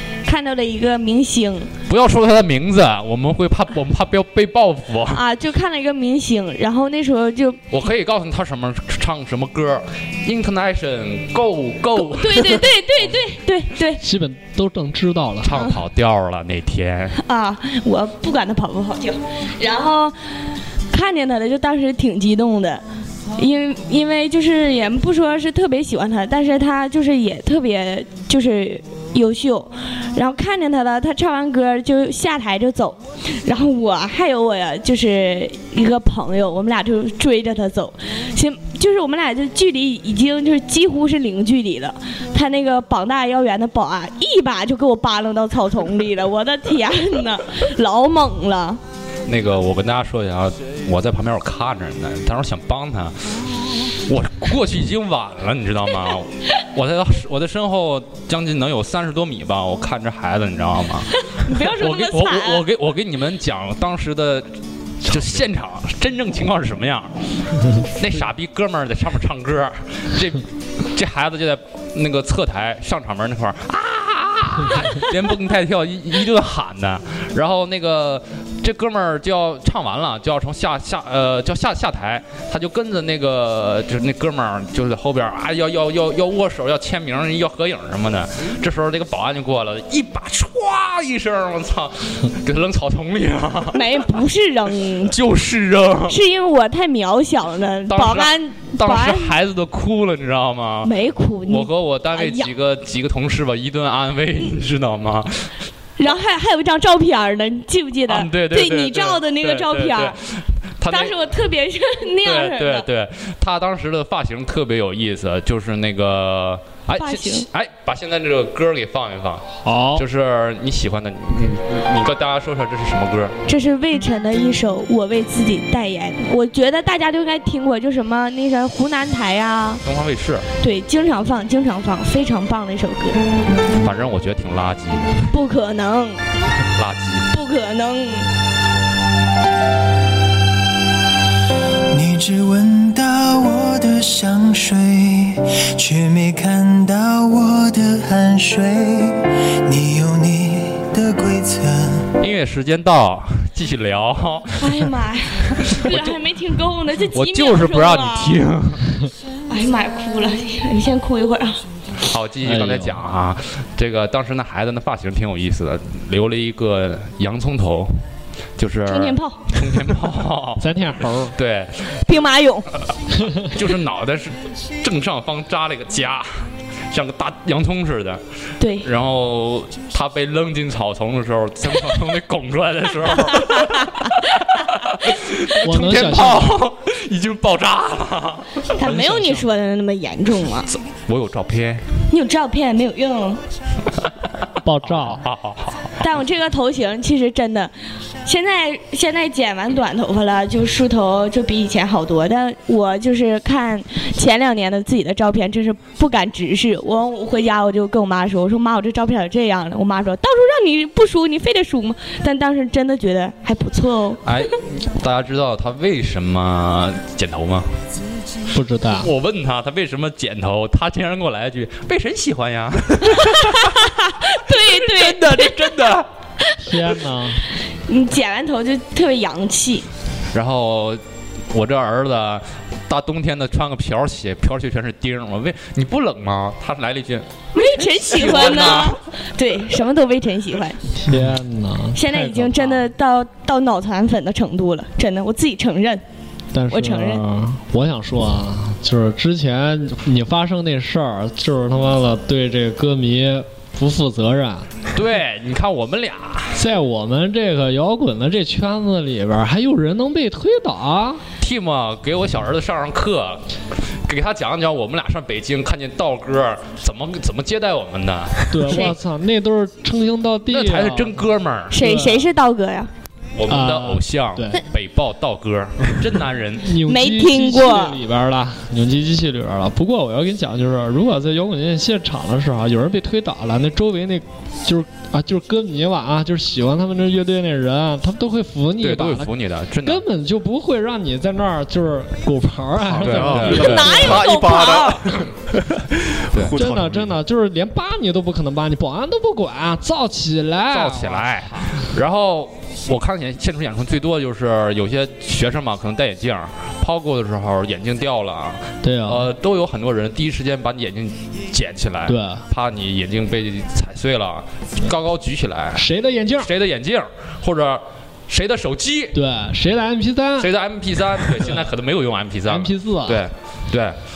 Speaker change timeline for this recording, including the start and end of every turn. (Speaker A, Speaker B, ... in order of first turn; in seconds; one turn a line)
Speaker A: 0.2-1.7
Speaker B: 1.9-5.2
Speaker A: 5.1-7.6
Speaker B: 7.7-12.7
Speaker A: 12.0-14.0
Speaker C: 14.0-15.5
Speaker B: 15.4-17.2
Speaker A: 17.2-20.1
Speaker A: 20.9-22.8
Speaker A: 23.4-48.8
Speaker B: 49.3-64.5
Speaker A: 61.4-62.6
Speaker B: 65.0-94.2
Speaker A: 93.7-95.1
Speaker B: 95.0-96.2
Speaker A: 96.1-99.3
Speaker B: 97.9-100.9
Speaker A: 100.8-102.5
Speaker B: 101.5-105.5
Speaker A: 106.0-110.2
Speaker B: 108.1-111.2
Speaker A: 110.9-112.8
Speaker B: 112.2-123.4
Speaker A: 117.0-117.5
Speaker C: 119.6-120.0
Speaker A: 123.5-129.8
Speaker B: 129.8-130.5
Speaker A: 130.6-133.2
Speaker B: 133.7-135.3
Speaker A: 135.3-136.2
Speaker B: 136.7-137.3
Speaker A: 137.3-138.3
Speaker D: 141.9-152.1
Speaker B: 152.2-154.8
Speaker A: 154.6-158.4
Speaker B: 155.6-156.1
Speaker B: 157.1-158.9
Speaker A: 159.5-161.6
Speaker B: 162.0-168.0
Speaker C: 162.4-163.0
Speaker B: 168.6-172.1
Speaker A: 168.9-169.4
Speaker C: 170.6-171.3
Speaker A: 172.0-172.7
Speaker C: 173.2-173.5
Speaker B: 173.4-178.2
Speaker A: 178.6-178.9
Speaker B: 178.8-188.7
Speaker A: 183.3-183.9
Speaker C: 185.6-186.6
Speaker A: 188.8-190.7
Speaker C: 188.8-189.4
Speaker B: 190.7-191.8
Speaker A: 192.1-193.4
Speaker C: 194.6-195.2
Speaker B: 194.8-196.0
Speaker A: 196.0-197.7
Speaker A: 198.2-214.5
Speaker B: 214.2-217.8
Speaker C: 218.5-219.1
Speaker B: 219.0-223.8
Speaker A: 223.1-225.8
Speaker B: 224.6-226.1
Speaker A: 226.5-226.8
Speaker C: 226.6-227.4
Speaker A: 227.8-229.8
Speaker B: 230.3-239.0
Speaker A: 237.5-240.8
Speaker C: 241.0-242.8
Speaker A: 241.9-246.0
Speaker C: 246.5-254.7
Speaker A: 246.7-247.2
Speaker B: 254.9-256.6
Speaker C: 256.5-261.2
Speaker B: 261.4-268.9
Speaker C: 268.5-272.3
Speaker A: 268.7-268.9
Speaker B: 270.5-271.8
Speaker A: 271.7-272.9
Speaker B: 273.4-276.7
Speaker C: 273.5-274.6
Speaker C: 276.6-289.3
Speaker A: 276.8-278.0
Speaker B: 288.8-290.0
Speaker C: 289.8-294.2
Speaker B: 293.0-294.2
Speaker E: 293.0-297.2
Speaker A: 293.5-295.1
Speaker C: 296.5-301.9
Speaker B: 300.7-315.9
Speaker C: 308.8-309.3
Speaker C: 312.1-312.4
Speaker C: 315.7-316.5
Speaker B: 316.4-319.1
Speaker C: 319.1-320.5
Speaker B: 320.4-324.0
Speaker C: 322.5-323.2